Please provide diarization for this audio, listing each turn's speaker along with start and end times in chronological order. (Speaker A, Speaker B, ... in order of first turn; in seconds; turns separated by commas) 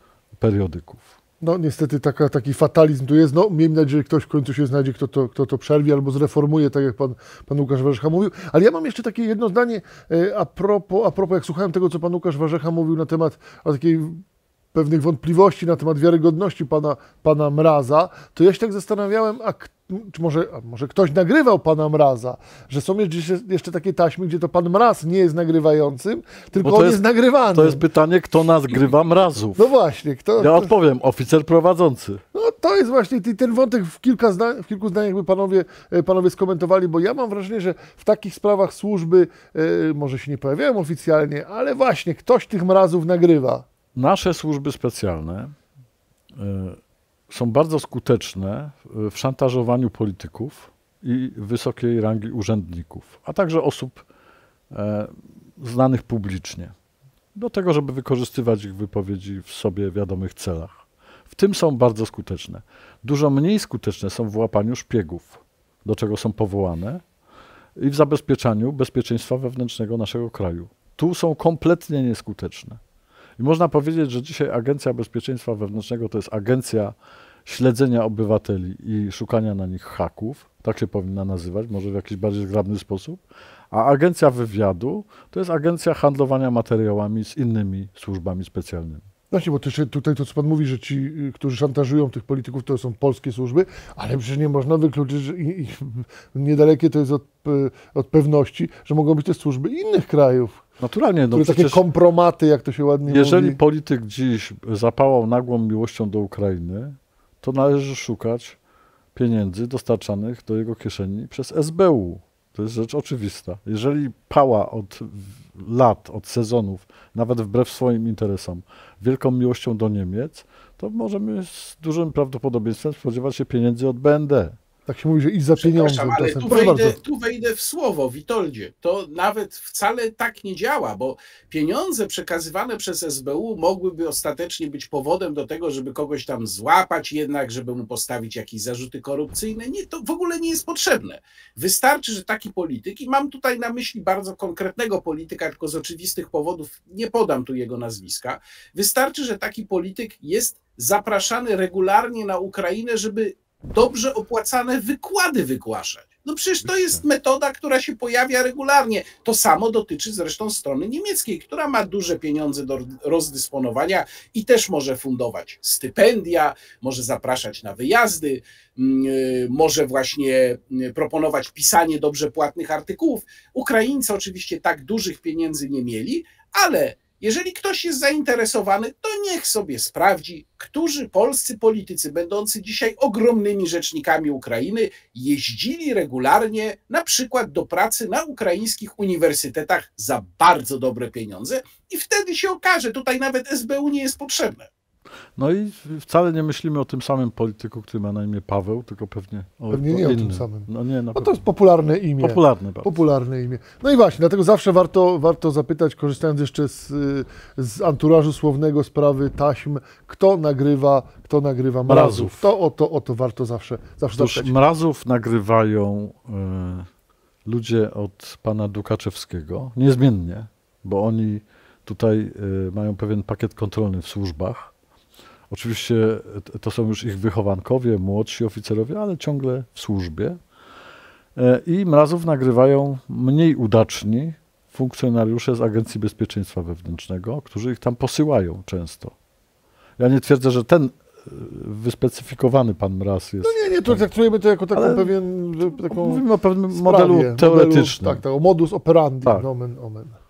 Speaker A: 0.4-1.1, Speaker B: 1.4-14.2, Speaker B: 14.7-27.8, Speaker A: 26.6-29.7, Speaker B: 29.6-30.7, Speaker A: 30.4-32.2, Speaker B: 32.3-43.7, Speaker A: 44.0-45.5, Speaker A: 46.4-46.8, Speaker A: 47.3-54.0, Speaker A: 54.7-56.7, Speaker A: 57.4-67.0, Speaker A: 67.8-72.8, Speaker A: 73.4-77.0, Speaker A: 77.5-89.1, Speaker B: 89.3-100.6, Speaker A: 100.8-101.8, Speaker B: 101.3-103.6, Speaker A: 103.1-108.6, Speaker A: 109.1-124.6, Speaker B: 124.9-127.0, Speaker C: 125.6-194.7, Speaker A: 156.6-157.0, Speaker A: 195.4-201.4, Speaker B: 199.7-214.5, Speaker A: 202.2-202.9, Speaker A: 211.9-212.4, Speaker A: 214.1-216.9, Speaker A: 217.5-224.7, Speaker A: 225.5-230.4, Speaker A: 231.4-239.1, Speaker A: 240.0-244.0, Speaker B: 243.4-250.2, Speaker A: 244.8-248.2